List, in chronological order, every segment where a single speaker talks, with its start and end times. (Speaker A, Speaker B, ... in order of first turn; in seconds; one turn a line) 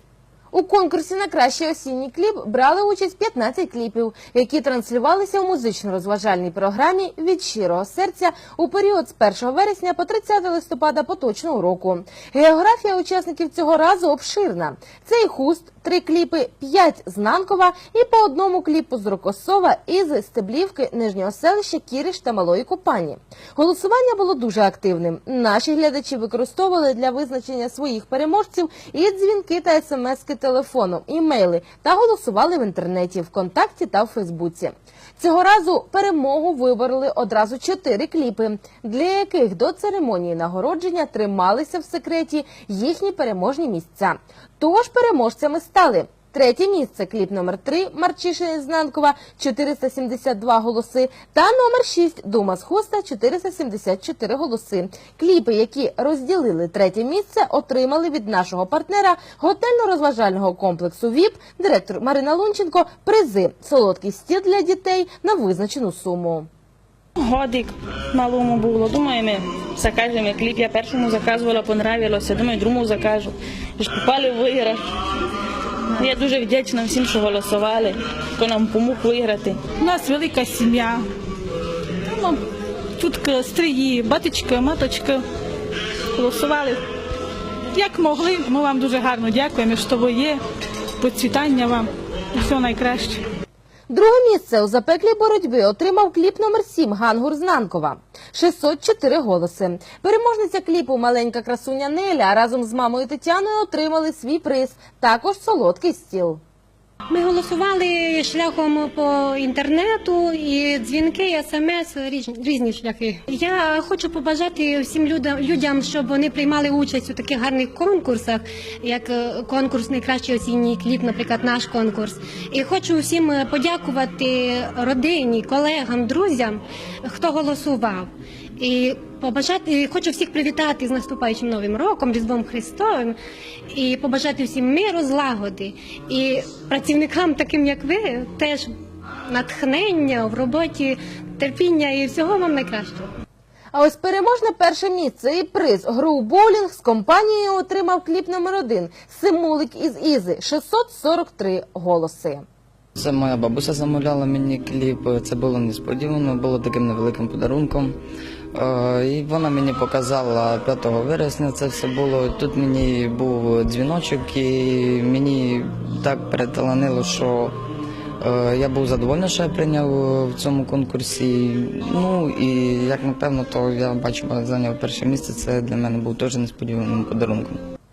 Speaker A: 0.5-66.5
Speaker B: 67.2-74.9
Speaker B: 76.0-79.6
Speaker C: 79.8-81.1
Speaker C: 82.1-82.4
Speaker C: 83.0-85.2
Speaker C: 86.1-86.8
Speaker C: 87.7-90.4
Speaker C: 91.0-93.2
Speaker A: 93.9-106.4
Speaker D: 107.1-133.2
Speaker D: 133.7-138.7
Speaker D: 139.3-143.0
Speaker A: 143.7-152.4
Speaker E: 153.0-157.9
Speaker E: 158.5-167.6
Speaker E: 168.2-177.6